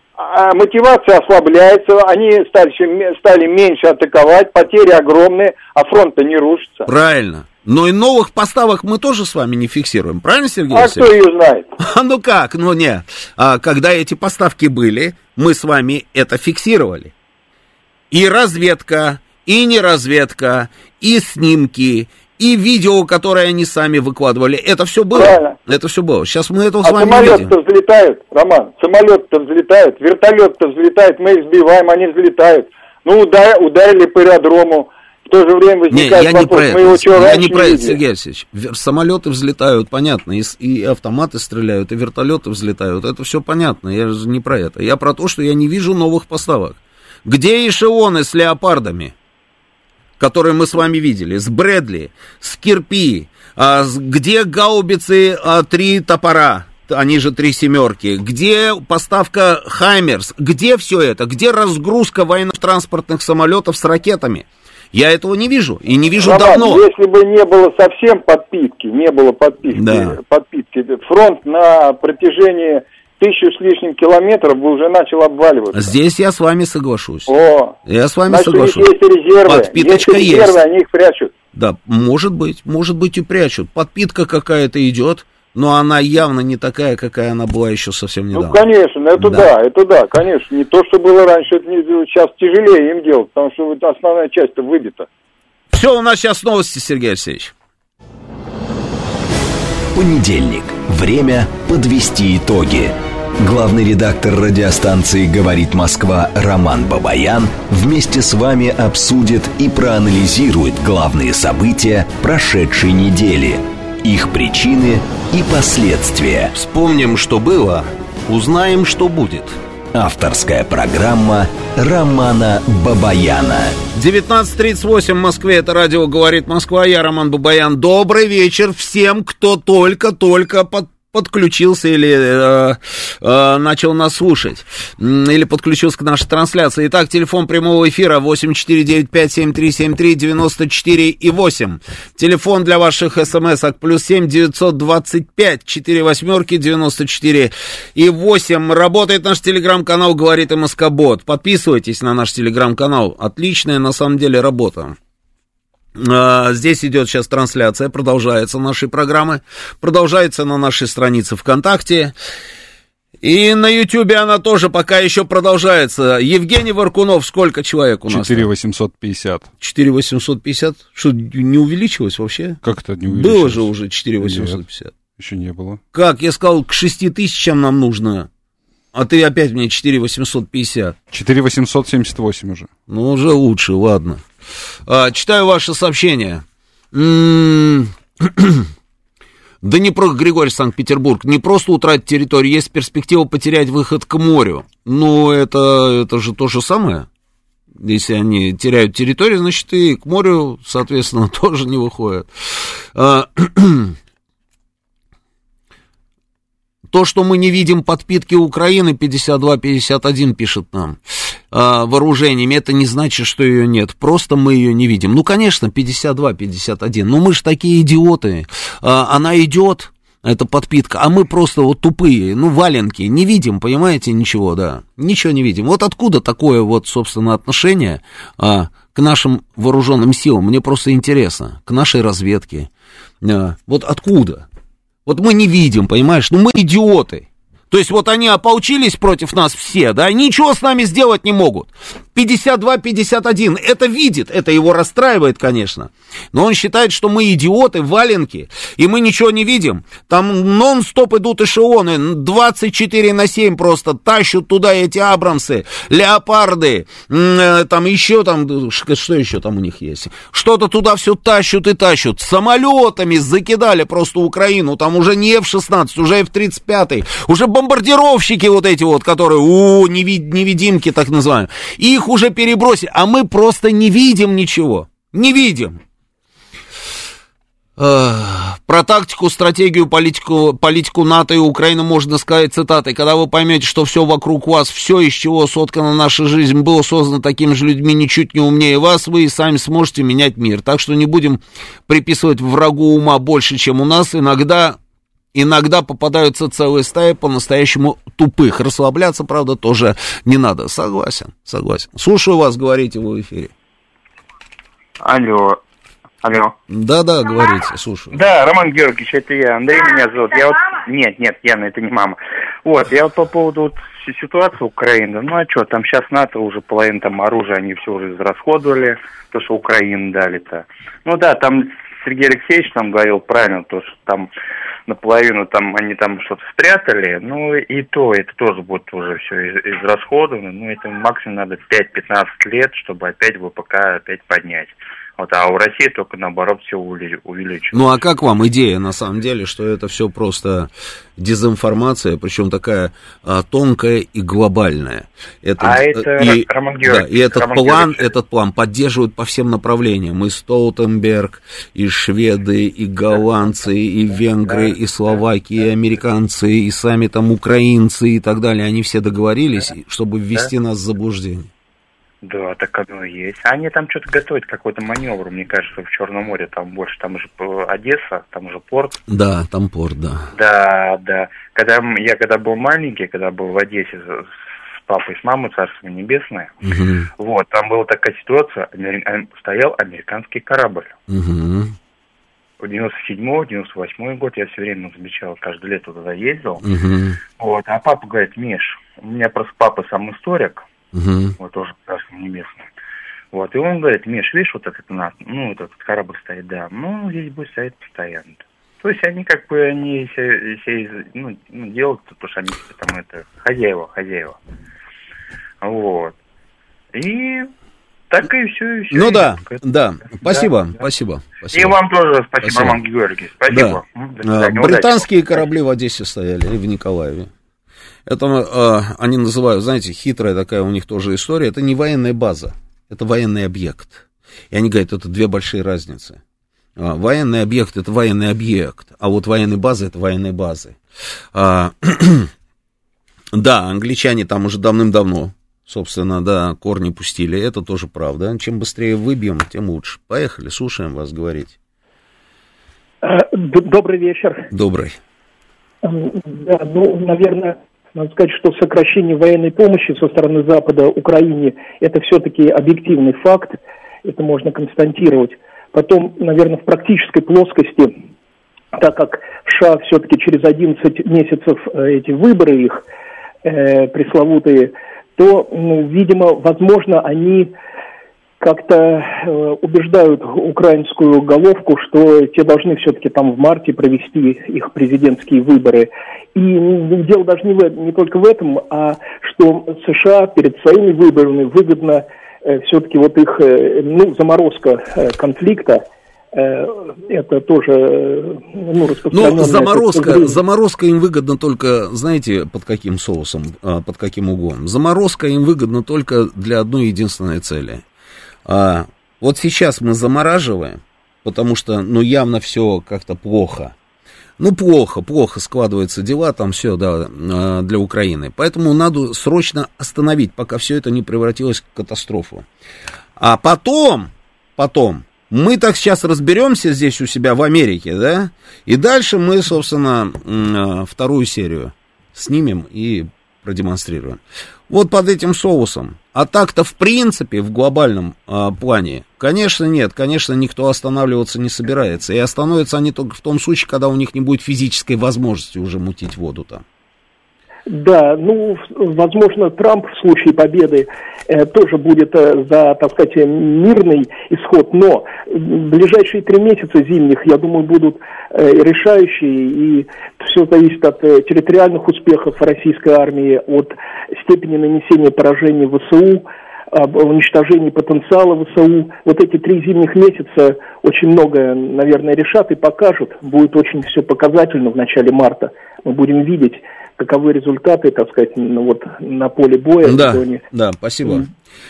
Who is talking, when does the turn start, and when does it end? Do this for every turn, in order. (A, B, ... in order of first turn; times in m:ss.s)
0:00.2-0:06.9 A
0:06.8-0:11.1 B
0:10.7-0:11.7 A
0:11.8-0:17.1 B
0:18.1-0:27.5 B
0:25.1-0:25.6 A
0:26.8-0:38.0 A
0:35.9-0:49.1 B
0:50.2-1:06.8 B
1:06.2-1:15.9 A
1:09.7-1:10.2 B
1:15.7-1:17.3 B
1:17.3-1:17.8 A
1:17.8-1:18.9 B
1:18.3-1:21.3 A
1:19.4-1:20.6 B
1:21.5-1:28.6 B
1:28.3-1:35.1 A
1:29.2-1:29.5 B
1:35.7-1:37.5 B
1:39.9-1:56.5 C
1:56.5-1:59.5 B
1:59.9-2:03.8 C
2:03.9-2:35.0 B
2:36.0-2:42.1 B
2:43.2-2:48.5 B
2:48.1-2:49.5 D
2:49.6-2:54.9 B
2:52.6-2:53.7 D
2:54.2-2:54.6 D
2:55.2-2:55.8 D
2:55.9-2:58.3 B
2:58.9-3:01.0 B
3:01.1-3:02.7 D
3:02.9-3:04.2 B
3:04.9-3:08.7 B
3:09.6-3:17.1 B
3:17.8-3:24.0 B
3:26.9-3:52.7 B
3:53.2-3:54.4 B
3:55.0-4:35.8 B
4:37.8-4:54.8 B
4:55.3-5:03.5 B
5:05.0-5:05.6 E
5:06.2-5:06.5 E
5:06.7-5:08.2 B
5:08.1-5:24.3 E
5:24.9-5:37.9 E
5:37.7-6:01.5 B
5:45.6-5:48.1 E
5:53.1-5:53.7 E
5:54.4-5:55.7 E
6:02.2-6:09.0 E
6:09.1-6:10.3 B
6:10.3-6:16.6 E
6:16.6-6:17.1 B
6:17.2-6:20.9 E
6:21.1-6:21.7 B
6:22.6-6:26.6 E
6:26.6-6:27.2 B
6:27.4-6:30.6 E
6:30.9-6:31.4 B
6:31.4-6:32.6 E
6:33.3-6:44.4 E
6:45.6-6:46.2 E
6:46.9-6:47.5 E
6:48.1-6:50.8 E
6:48.9-6:51.8 B
6:51.5-6:55.5 E
6:52.4-6:52.8 B
6:53.5-6:57.3 B
6:58.1-7:06.2 B
7:06.8-7:10.8 B
7:11.3-7:12.3 B
7:13.3-7:21.6 B
7:23.0-7:24.5 F
7:24.5-7:25.0 B
7:25.8-7:38.0 F
7:38.7-7:42.8 F
7:43.4-7:47.5 F
7:48.4-8:10.4 F
8:09.1-8:17.8 B
8:18.4-8:23.7 B
8:24.4-8:32.4 B
8:33.2-8:56.6 B
8:57.7-9:30.4 F
9:29.8-9:31.2 B